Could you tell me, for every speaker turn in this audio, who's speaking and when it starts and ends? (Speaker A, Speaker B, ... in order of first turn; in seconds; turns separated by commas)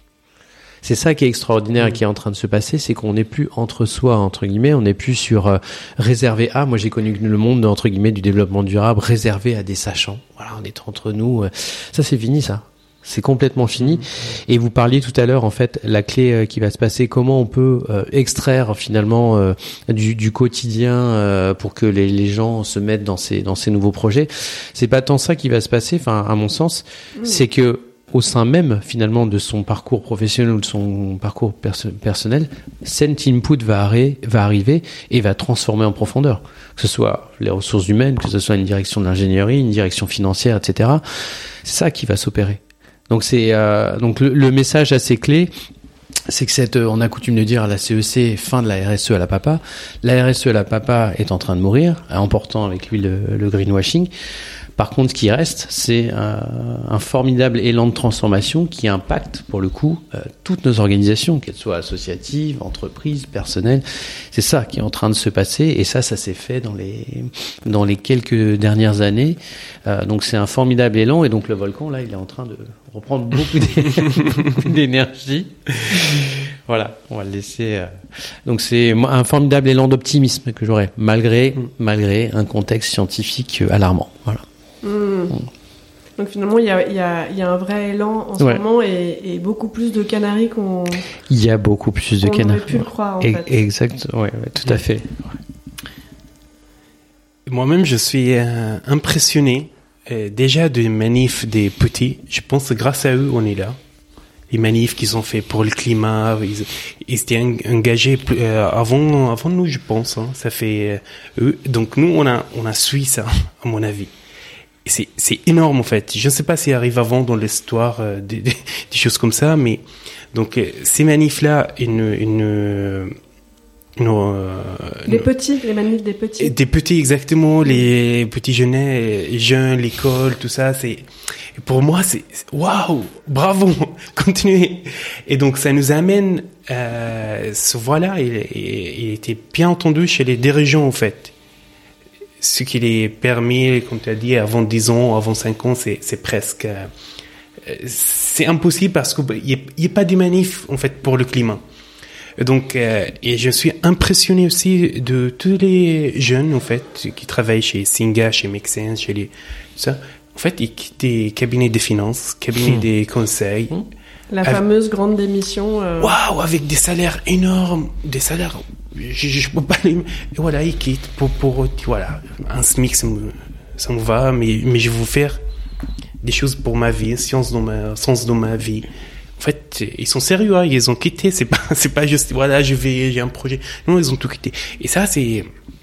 Speaker A: 0.8-41.0, Speaker A: 41.6-45.5, Speaker A: 46.3-54.1, Speaker A: 54.8-84.4, Speaker B: 84.8-85.3, Speaker B: 86.2-91.0, Speaker A: 91.3-95.4, Speaker B: 92.2-93.5, Speaker C: 97.5-103.8, Speaker C: 104.5-114.1, Speaker C: 114.8-123.2, Speaker C: 124.0-125.3, Speaker B: 125.1-126.5, Speaker C: 126.4-141.3, Speaker C: 142.4-146.9, Speaker C: 147.6-151.6, Speaker C: 152.4-163.8, Speaker B: 164.3-166.1, Speaker C: 166.0-175.4, Speaker C: 176.2-178.9, Speaker C: 179.4-185.5